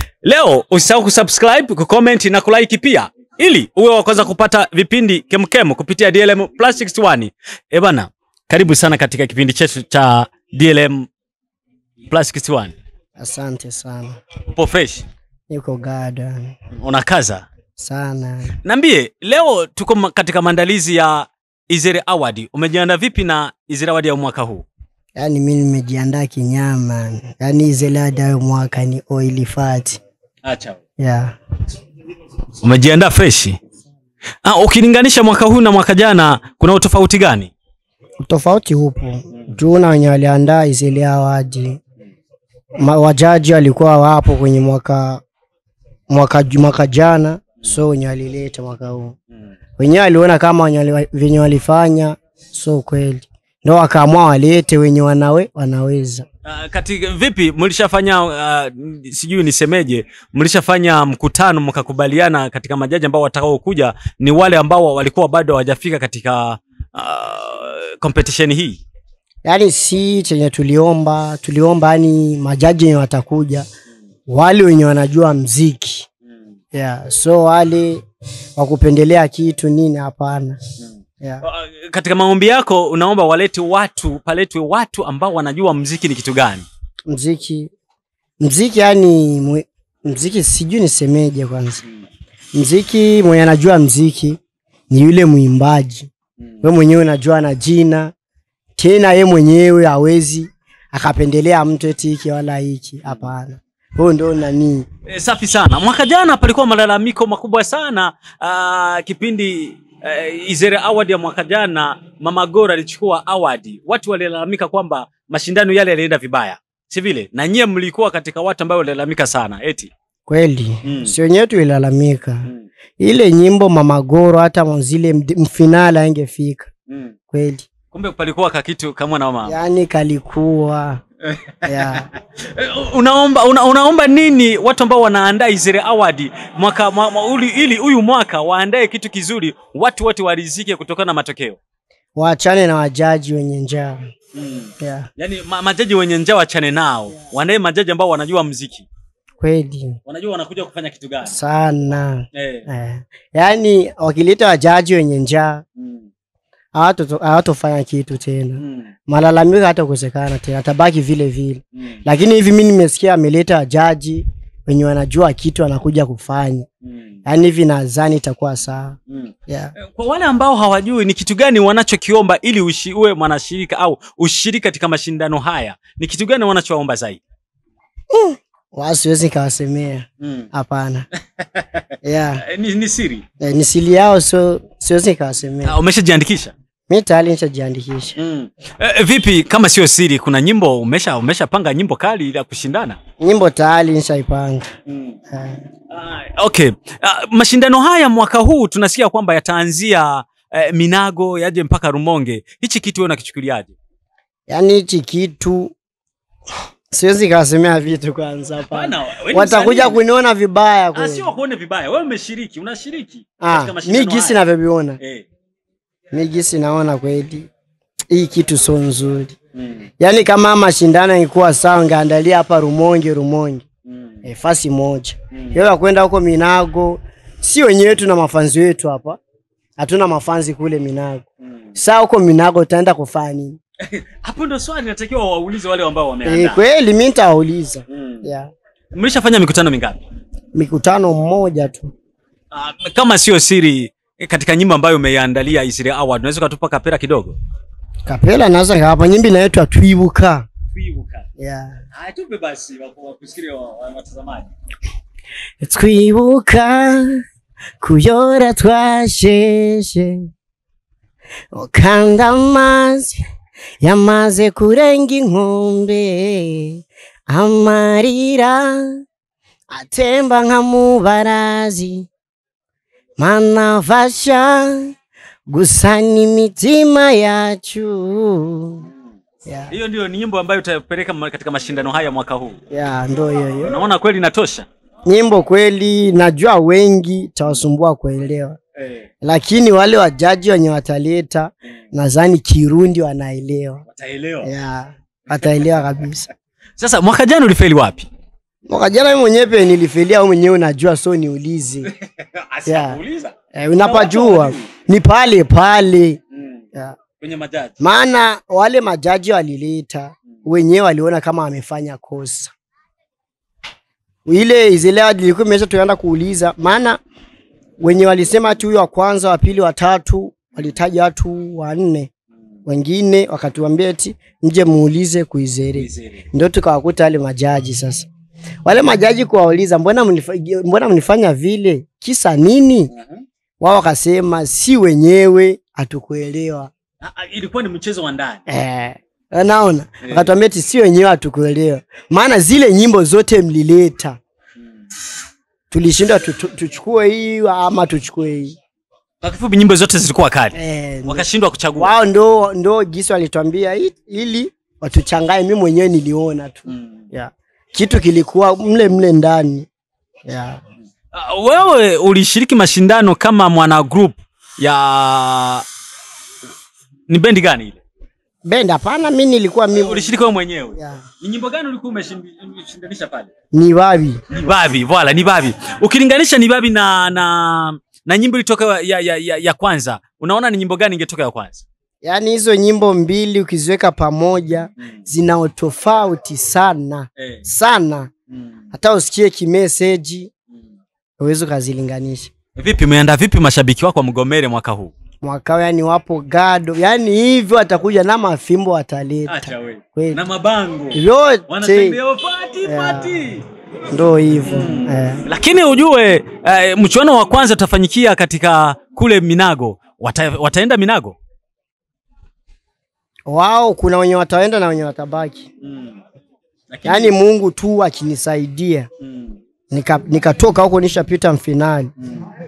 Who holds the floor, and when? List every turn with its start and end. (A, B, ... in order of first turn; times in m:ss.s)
0:00.2-0:11.1 A
0:12.1-0:12.7 A
0:13.2-0:14.2 B
0:14.5-0:15.0 A
0:15.5-0:16.6 B
0:16.8-0:17.5 A
0:17.8-0:18.6 B
0:18.6-0:24.6 A
0:25.2-0:30.0 B
0:30.4-0:30.8 A
0:31.0-0:31.3 B
0:32.6-0:33.6 A
0:34.4-0:37.5 A
0:38.2-0:41.8 B
0:42.8-0:45.2 B
0:46.1-0:49.2 B
0:49.8-0:56.2 B
0:56.4-1:08.8 A
1:09.4-1:13.6 B
1:14.3-1:16.1 B
1:16.7-1:18.0 B
1:18.6-1:20.6 B
1:20.8-1:26.6 A
1:27.1-1:27.7 B
1:28.4-1:31.8 B
1:32.5-1:34.4 B
1:34.9-1:36.1 B
1:36.6-1:38.1 B
1:38.8-1:44.8 B
1:43.0-1:43.3 A
1:45.1-1:59.9 A
2:00.3-2:02.5 B
2:00.8-2:01.1 A
2:03.0-2:06.7 B
2:06.9-2:07.1 A
2:07.3-2:07.7 B
2:07.9-2:09.5 A
2:09.4-2:11.0 B
2:11.3-2:21.6 A
2:11.6-2:12.1 B
2:22.1-2:24.0 B
2:24.3-2:28.9 A
2:24.8-2:25.1 B
2:29.4-2:30.0 B
2:30.0-2:31.4 A
2:31.2-2:35.6 B
2:32.3-2:32.7 A
2:35.8-2:36.1 A
2:36.7-2:46.7 B
2:38.6-2:38.9 A
2:41.8-2:42.0 A
2:46.8-2:47.2 A
2:47.2-2:49.0 B
2:49.1-2:57.2 A
2:49.5-2:49.7 B
2:58.1-3:01.0 B
3:00.2-3:00.5 A
3:01.4-3:01.8 A
3:02.0-3:02.4 B
3:02.4-3:03.2 A
3:03.4-3:05.8 B
3:05.6-3:06.5 A
3:06.9-3:08.2 B
3:08.2-3:13.0 A
3:13.2-3:14.7 B
3:14.9-3:15.2 A
3:15.3-3:15.6 B
3:15.9-3:23.7 A
3:24.5-3:25.7 B
3:26.9-3:31.3 B
3:28.6-3:30.0 A
3:30.9-3:34.4 A
3:33.4-3:35.0 B
3:35.0-3:35.2 A
3:36.1-3:37.5 B
3:38.1-3:39.3 B
3:39.6-3:39.9 A
3:40.0-3:43.6 B
3:43.9-3:44.2 A
3:44.2-3:49.2 B
3:45.3-3:45.6 A
3:49.8-3:51.2 B
3:51.8-3:53.6 B
3:53.8-3:56.6 A
3:56.2-3:58.5 B
3:57.9-3:58.3 A
3:58.9-4:00.0 A
4:00.5-4:01.9 B
4:02.5-4:07.4 A
4:08.0-4:10.5 B
4:10.7-4:11.3 A
4:11.4-4:11.8 B
4:11.9-4:14.5 A
4:15.6-4:17.2 B
4:17.8-4:20.3 B
4:21.5-4:23.2 B
4:23.8-4:29.0 B
4:29.7-4:32.1 B
4:33.2-4:34.9 B
4:35.5-4:38.8 B
4:39.4-4:39.7 B
4:39.7-4:42.6 A
4:42.7-4:43.7 B
4:43.6-4:44.7 A
4:45.0-4:48.6 B
4:48.8-4:49.1 A
4:49.2-4:53.8 B
4:53.9-4:54.5 A
4:54.4-4:56.3 B
4:56.8-4:58.1 A
4:58.7-5:01.9 B
5:01.9-5:04.7 A
5:02.6-5:03.0 B
5:03.5-5:06.2 B
5:06.3-5:06.6 A
5:07.2-5:07.7 A
5:07.8-5:12.5 B
5:14.2-5:17.0 B
5:17.8-5:22.1 B
5:22.7-5:28.1 B
5:25.7-5:26.2 A
5:28.6-5:32.9 B
5:32.9-5:33.2 A
5:33.6-5:36.7 B
5:37.0-5:38.4 A
5:38.5-5:44.2 B
5:40.0-5:40.3 A
5:45.7-5:48.5 B
5:49.2-5:51.9 A
5:50.5-5:59.7 B
5:56.7-5:57.0 A
6:00.2-6:00.6 B
6:01.1-6:05.6 A
6:07.1-6:07.8 A
6:08.4-6:10.2 B
6:09.7-6:13.3 A
6:10.8-6:11.0 B
6:13.5-6:14.2 B
6:14.3-6:21.6 A
6:22.0-6:28.1 B
6:27.2-6:27.4 A
6:28.7-6:30.3 B
6:31.2-6:32.3 B
6:32.6-6:34.9 A
6:35.2-6:40.2 B
6:39.3-6:43.4 A
6:40.9-6:42.0 B
6:42.6-6:43.2 B
6:43.9-6:45.2 B
6:44.4-6:51.2 A
6:53.3-6:55.5 B
6:55.6-6:56.0 A
6:56.7-6:57.1 A
6:56.8-6:58.9 B
6:59.0-6:59.4 A
6:59.7-7:01.9 B
7:02.0-7:02.2 A